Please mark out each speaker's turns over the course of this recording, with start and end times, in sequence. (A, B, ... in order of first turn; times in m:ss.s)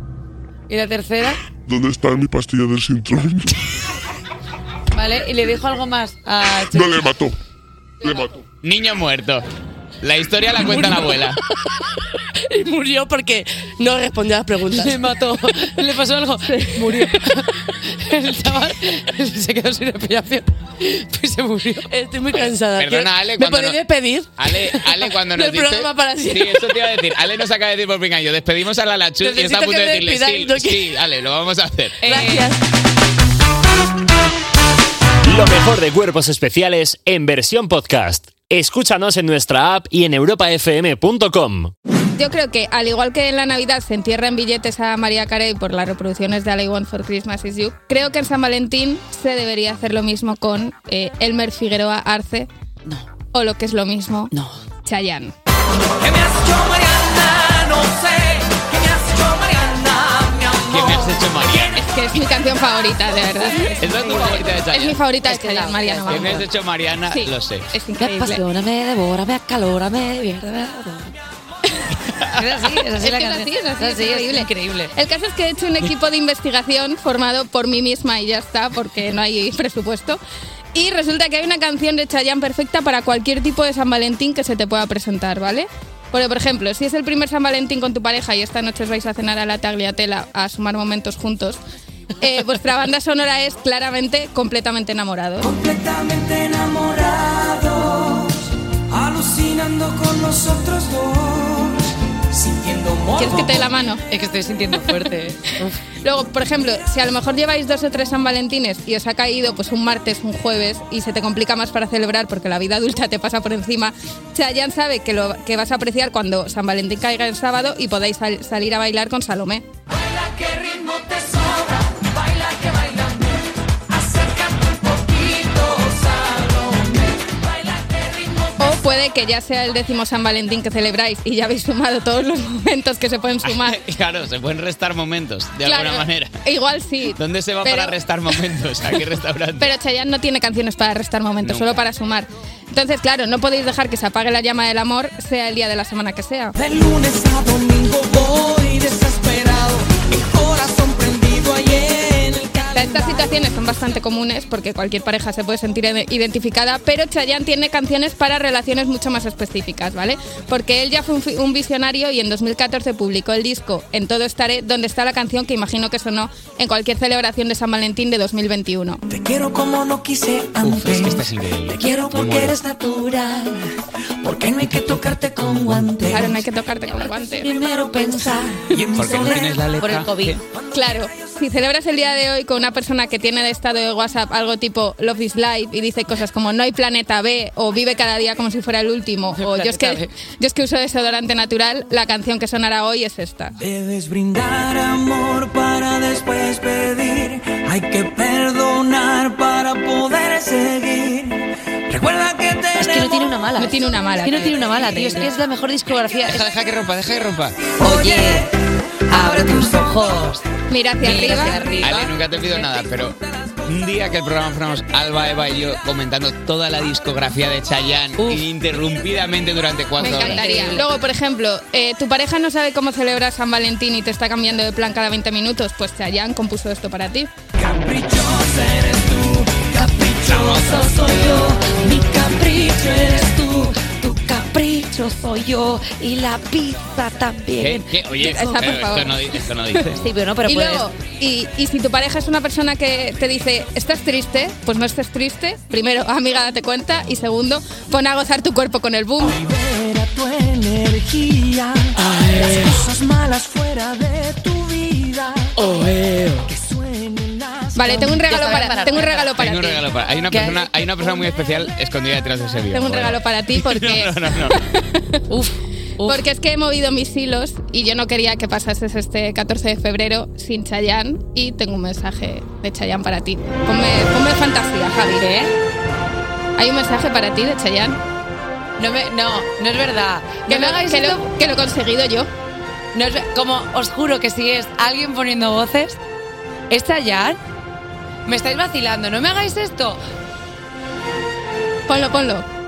0:00.7-0:01.4 A
0:01.7-0:03.6 B
0:04.9-0:07.1 A
0:06.6-0:07.4 B
0:08.0-0:08.4 B
0:08.6-0:09.4 C
0:10.0-0:11.4 C
0:12.4-0:15.0 D
0:14.8-0:21.9 A
0:16.5-0:17.3 D
0:21.9-0:24.3 D
0:22.4-0:23.8 C
0:24.4-0:32.0 C
0:25.3-0:26.6 D
0:29.2-0:30.9 D
0:32.0-0:32.5 A
0:32.0-0:32.6 D
0:35.2-0:41.7 E
0:42.2-0:52.5 F
0:53.3-0:54.3 F
0:54.3-0:54.6 A
0:54.8-0:55.3 F
0:56.0-1:01.2 G
1:00.7-1:01.9 C
1:01.8-1:06.5 F
1:03.8-1:05.0 C
1:05.3-1:06.4 A
1:06.1-1:07.7 C
1:07.1-1:08.4 F
1:08.0-1:11.1 A
1:12.4-1:14.9 A
1:13.0-1:20.2 F
1:20.7-1:31.6 F
1:32.2-1:35.5 F
1:35.4-1:43.7 G
1:43.2-1:44.0 F
1:44.1-1:45.8 A
1:46.0-1:59.6 F
2:00.0-2:03.4 G
2:03.9-2:08.6 G
2:08.6-2:13.8 F
2:13.4-2:16.3 C
2:15.7-2:18.0 F
2:17.2-2:19.7 C
2:19.6-2:26.6 F
2:21.4-2:21.8 C
2:26.6-2:33.3 G
2:32.7-2:49.0 F
2:49.1-2:53.6 G
2:50.6-2:52.6 C
2:54.2-2:56.4 G
2:56.1-2:57.5 F
2:57.4-2:59.6 G
2:58.0-2:58.2 A
2:58.9-3:00.4 C
2:59.1-3:00.4 A
3:00.7-3:13.5 F
3:09.4-3:10.1 A
3:13.6-3:23.3 G
3:22.8-3:26.5 A
3:23.6-3:25.3 F
3:26.3-3:27.6 C
3:27.8-3:28.5 A
3:27.8-3:28.4 G
3:29.1-3:30.4 A
3:30.7-3:31.6 F
3:31.0-3:32.6 A
3:31.8-3:40.5 C
3:38.2-3:38.4 A
3:40.0-3:47.3 F
3:40.0-3:40.9 A
3:47.6-3:54.6 G
3:50.3-3:50.8 C
3:57.6-4:00.0 C
3:58.2-3:59.2 F
4:00.0-4:00.9 A
4:00.4-4:09.4 F
4:09.2-4:18.2 G
4:15.6-4:15.9 A
4:17.8-4:19.8 F
4:18.2-4:19.3 A
4:19.4-4:24.6 C
4:20.3-4:20.6 A
4:22.7-4:25.2 F
4:25.3-4:26.2 A
4:26.1-4:35.3 F
4:35.1-4:35.5 A
4:36.6-4:38.0 F
4:38.8-4:41.2 A
4:40.5-4:42.3 F
4:42.9-4:46.0 A
4:46.7-4:47.4 A
4:48.3-4:50.0 A
4:51.9-4:52.5 F